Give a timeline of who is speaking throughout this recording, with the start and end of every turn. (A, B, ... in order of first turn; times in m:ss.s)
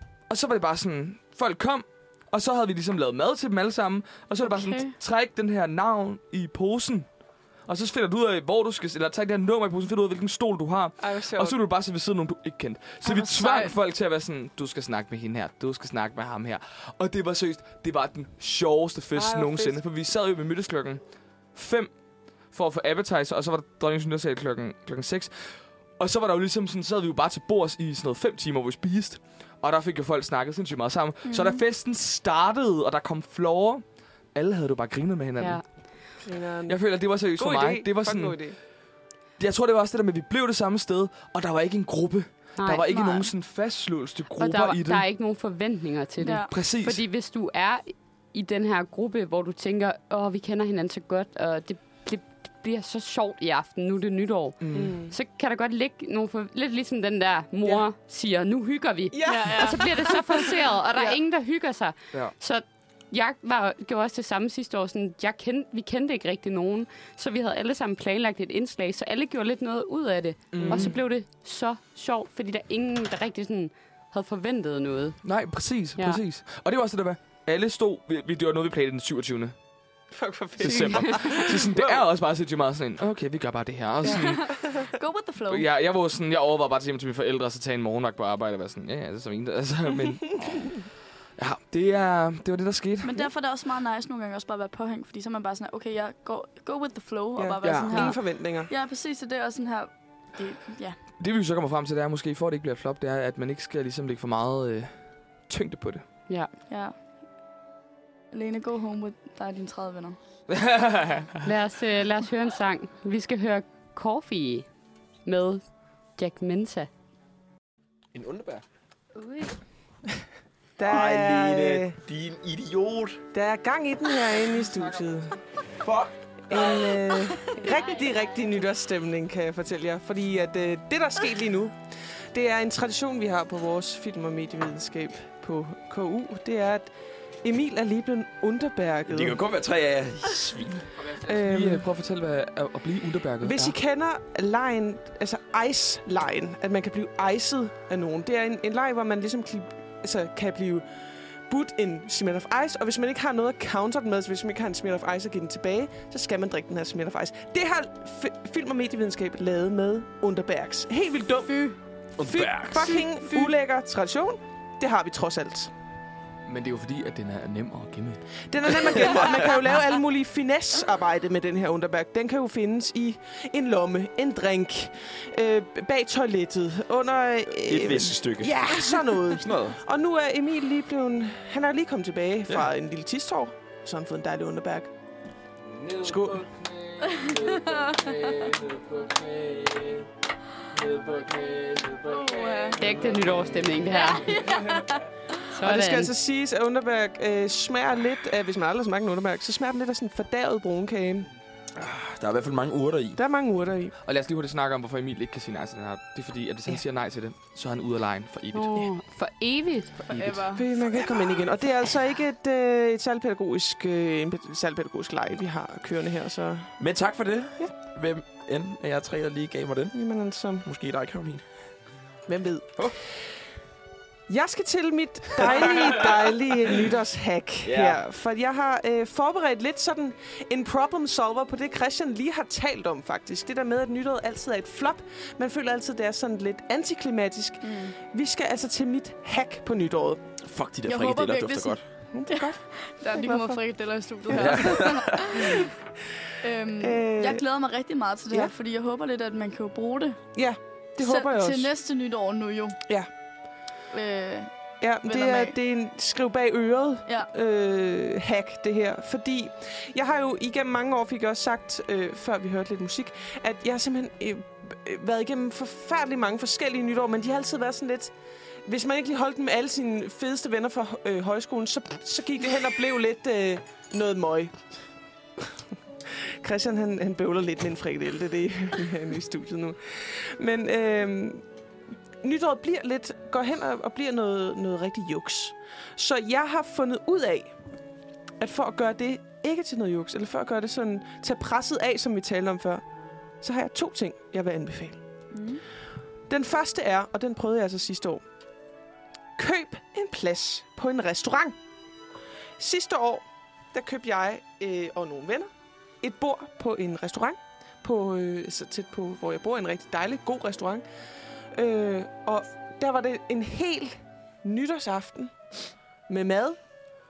0:00.3-0:07.1 A
0:04.4-0:05.0 B
0:07.6-0:35.7 A
0:11.0-0:11.6 C
0:13.0-0:13.7 B
0:19.1-0:19.8 C
0:31.2-0:31.6 B
0:35.4-0:35.7 D
0:36.2-0:38.6 C
0:36.7-0:38.5 A
0:39.4-0:45.1 A
0:42.6-0:43.2 D
0:42.9-0:43.3 B
0:44.4-1:15.3 D
0:46.2-0:46.5 B
0:46.5-0:47.0 A
0:54.6-0:55.0 A
0:54.7-0:55.2 C
0:59.1-1:01.2 C
0:59.2-0:59.9 B
1:10.5-1:11.0 A
1:10.6-1:11.0 C
1:15.2-1:19.5 A
1:16.0-1:16.2 D
1:20.1-1:22.0 C
1:20.6-1:24.6 A
1:20.7-1:21.2 D
1:24.0-1:24.5 C
1:24.0-1:25.6 B
1:25.5-1:30.8 A
1:31.4-1:33.2 A
1:33.0-1:41.0 B
1:37.4-1:38.7 C
1:37.6-1:38.1 A
1:41.2-1:46.4 A
1:46.7-1:47.0 B
1:48.3-1:50.2 B
1:50.5-1:51.4 A
1:51.4-1:54.7 D
1:55.2-1:56.9 D
1:58.1-1:58.6 E
2:00.8-2:02.0 C
2:00.8-2:03.2 E
2:03.3-2:05.4 C
2:05.8-2:06.9 E
2:06.5-2:11.8 C
2:12.3-2:16.9 C
2:17.4-2:19.4 C
2:19.1-2:20.9 E
2:21.0-2:23.7 A
2:21.2-2:21.9 C
2:23.4-2:30.8 C
2:31.5-2:41.6 C
2:41.4-2:41.8 B
2:42.2-2:43.0 E
2:42.2-2:45.7 C
2:43.0-2:43.5 B
2:46.4-2:48.2 A
2:48.5-3:04.9 C
2:57.6-2:59.8 E
3:05.8-3:10.1 A
3:06.0-3:06.4 C
3:07.0-3:08.5 B
3:10.7-3:13.2 A
3:12.0-3:12.8 B
3:12.8-3:14.4 D
3:13.9-3:15.1 B
3:14.4-3:14.9 A
3:15.5-3:16.1 D
3:15.6-3:21.3 C
3:21.8-3:23.2 E
3:23.2-3:23.9 C
3:24.0-3:28.8 A
3:28.5-3:30.0 D
3:30.0-3:30.4 A
3:30.1-3:30.6 B
3:30.5-3:36.8 C
3:36.8-3:39.9 E
3:39.9-3:40.6 C
3:40.6-3:41.4 E
3:42.2-3:42.9 C
3:44.3-4:00.2 C
3:47.6-3:48.0 E
3:57.6-3:57.9 B
4:00.4-4:01.8 E
4:00.8-4:05.7 B
4:02.1-4:03.6 C
4:04.3-4:04.7 C
4:04.3-4:05.4 E
4:06.4-4:10.3 B
4:06.8-4:07.4 C
4:10.4-4:11.7 C
4:11.0-4:12.8 B
4:13.9-4:15.6 B
4:14.8-4:28.1 C
4:28.6-4:34.6 C
4:36.1-4:41.4 C
4:42.2-4:47.5 C
4:48.4-4:52.8 C
4:53.4-4:55.0 C
4:55.3-4:55.6 B
4:56.3-4:58.2 C
4:59.4-5:01.6 C
5:02.6-5:05.5 C
5:06.0-5:10.8 C
5:11.5-5:15.4 C
5:16.1-5:16.6 C